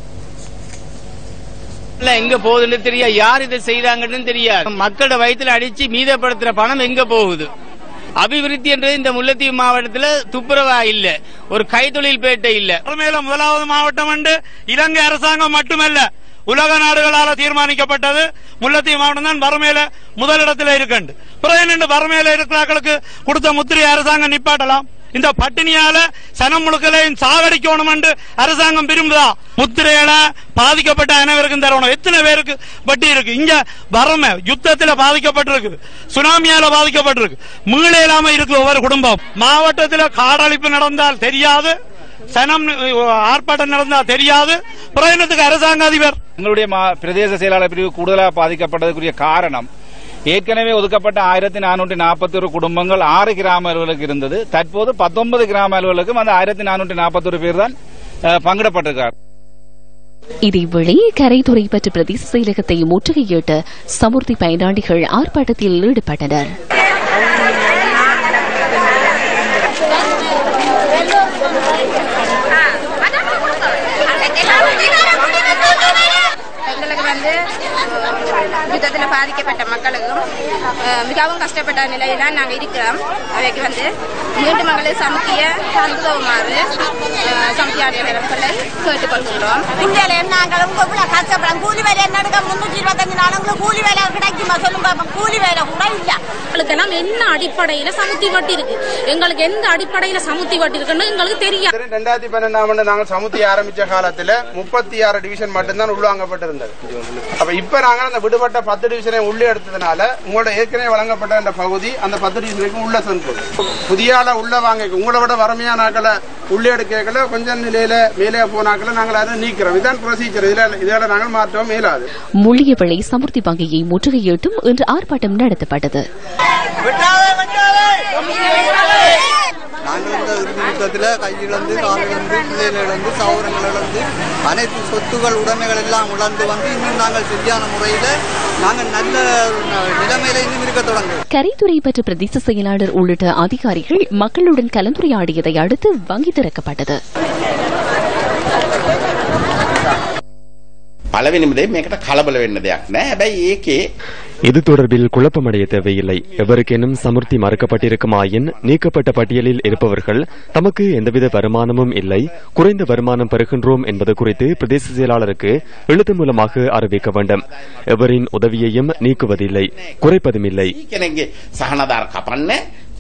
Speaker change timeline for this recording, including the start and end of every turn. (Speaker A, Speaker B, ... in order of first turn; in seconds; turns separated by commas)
Speaker A: 2.0-7.5, Speaker A: 8.2-12.8, Speaker B: 12.8-41.8, Speaker B: 42.3-46.2, Speaker C: 46.4-49.7, Speaker C: 50.3-57.7, Speaker C: 58.4-59.1, Speaker D: 60.5-66.5, Speaker E: 72.5-76.0, Speaker E: 76.7-80.3, Speaker E: 80.8-89.9, Speaker F: 89.8-96.2, Speaker G: 96.5-101.7, Speaker H: 101.7-106.7, Speaker H: 107.4-122.1, Speaker D: 122.4-126.0, Speaker I: 129.9-138.1, Speaker I: 138.6-141.2, Speaker D: 141.3-147.0, Speaker J: 151.1-153.8, Speaker K: 154.5-170.7, Speaker J: 157.4-158.2, Speaker J: 166.4-167.4, Speaker J: 168.7-169.9, Speaker J: 170.7-172.6